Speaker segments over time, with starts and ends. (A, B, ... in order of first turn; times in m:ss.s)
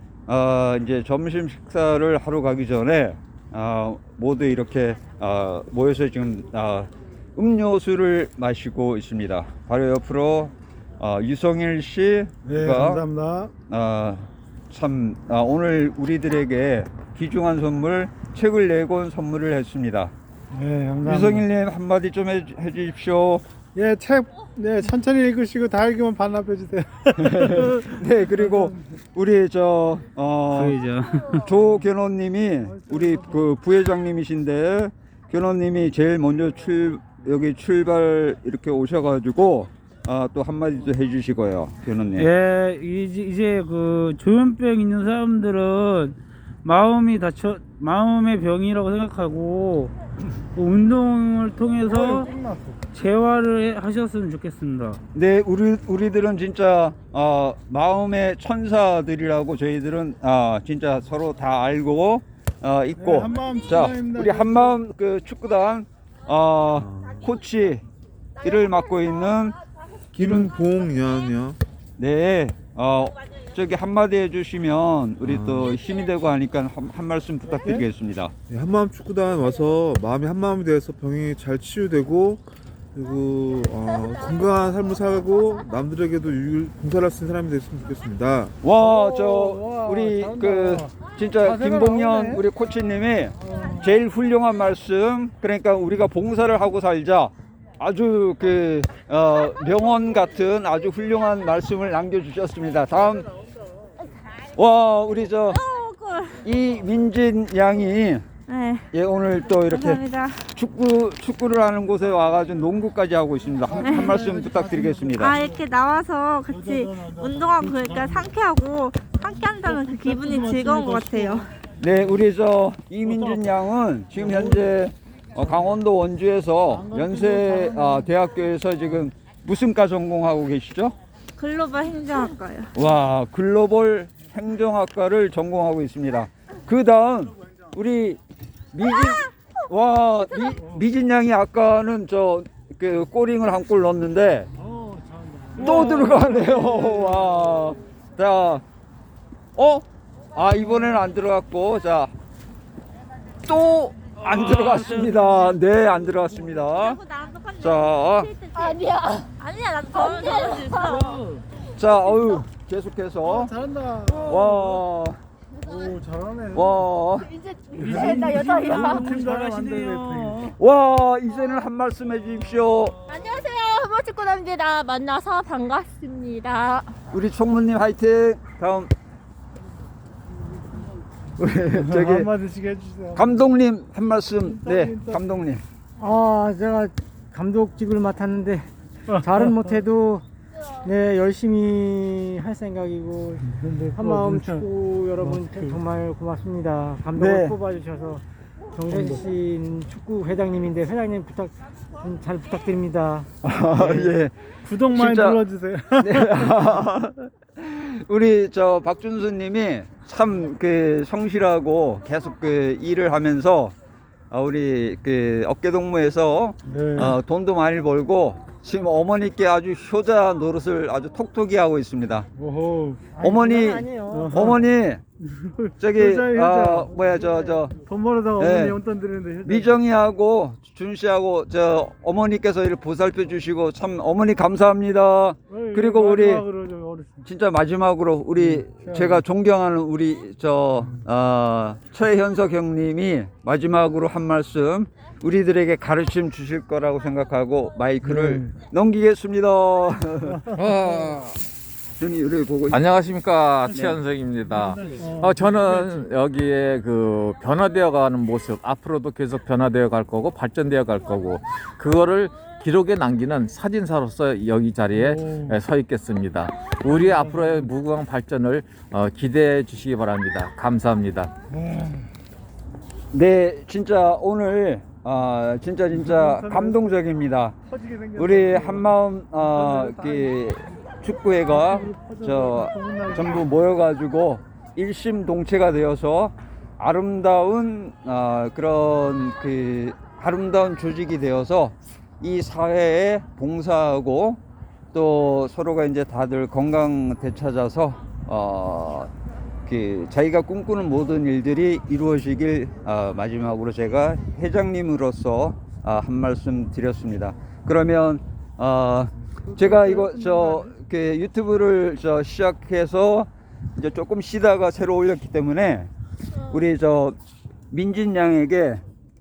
0:00.3-0:13.0 A
0:12.4-0:13.5 B
0:13.7-0:20.1 A
0:20.5-0:21.5 B
0:21.0-0:23.4 A
0:23.7-0:28.8 B
0:27.2-0:30.8 A
0:30.5-0:31.5 C
0:31.4-0:42.3 A
0:32.6-0:33.5 B
0:42.2-0:49.9 C
0:50.6-0:52.3 C
0:51.8-0:52.8 B
0:52.9-0:55.0 C
0:55.1-1:07.8 A
1:03.0-1:04.8 B
1:06.8-1:07.3 D
1:08.4-1:09.6 A
1:10.1-1:11.6 D
1:10.2-1:10.5 A
1:12.0-1:18.3 A
1:15.2-1:15.7 D
1:17.5-1:17.8 B
1:18.5-1:28.6 D
1:28.6-1:43.3 A
1:28.8-1:32.4 B
1:33.4-1:33.9 B
1:44.6-1:45.6 A
1:45.5-1:46.4 E
1:46.4-1:48.3 A
1:48.5-1:48.9 E
1:48.9-1:55.4 A
1:49.6-1:50.5 E
1:53.7-1:55.6 B
1:53.8-1:54.2 E
1:55.2-2:01.5 E
1:56.5-1:58.3 B
1:59.2-2:02.2 B
2:01.8-2:11.0 A
2:03.0-2:03.6 B
2:04.1-2:04.8 B
2:05.4-2:05.7 B
2:06.7-2:08.1 B
2:11.4-2:12.7 E
2:12.8-2:18.2 A
2:18.7-2:24.5 A
2:20.5-2:20.8 B
2:24.6-2:27.7 B
2:25.6-2:28.6 A
2:25.8-2:26.1 C
2:29.6-2:32.1 A
2:33.5-2:37.0 A
2:34.2-2:35.6 C
2:36.5-2:41.2 E
2:37.6-2:38.4 A
2:40.6-2:41.4 C
2:41.8-2:43.5 A
2:43.2-2:44.8 B
2:44.3-2:45.2 A
2:45.7-2:46.9 B
2:46.5-2:47.3 A
2:47.4-2:48.9 E
2:47.7-2:50.5 C
2:47.8-2:50.5 B
2:50.6-2:53.0 A
2:53.1-2:56.9 E
2:57.1-2:58.9 A
3:01.4-3:02.3 A
3:01.7-3:03.4 B
3:03.2-3:05.6 A
3:04.4-3:05.4 B
3:06.0-3:08.7 F
3:09.1-3:09.5 B
3:09.2-3:10.2 F
3:10.8-3:23.3 F
3:13.5-3:14.6 B
3:15.2-3:15.8 B
3:17.2-3:17.6 A
3:18.9-3:19.2 B
3:23.4-3:25.4 A
3:23.8-3:24.1 B
3:24.6-3:26.5 B
3:26.0-3:33.8 A
3:34.3-3:42.3 A
3:36.7-3:37.2 B
3:42.4-3:43.2 B
3:43.1-3:44.6 F
3:43.2-3:45.0 A
3:44.1-3:44.6 B
3:45.2-3:49.8 B
3:45.8-3:47.8 A
3:48.4-3:48.8 A
3:49.4-3:56.5 A
3:55.5-3:57.2 B
3:57.2-4:10.6 A
3:58.4-3:59.2 B
4:08.0-4:08.5 B
4:10.5-4:11.4 G
4:12.0-4:12.8 A
4:12.7-4:31.3 G
4:14.5-4:15.7 B
4:24.9-4:25.6 B
4:26.8-4:27.7 B
4:31.5-4:32.1 B
4:33.1-4:37.6 A
4:35.9-4:37.0 B
4:37.7-4:40.4 B
4:38.2-4:54.4 A
4:41.5-4:43.5 B
4:54.9-4:59.1 A
4:59.7-5:15.9 A
5:09.5-5:10.7 B
5:16.5-5:17.2 A
5:17.7-5:18.8 A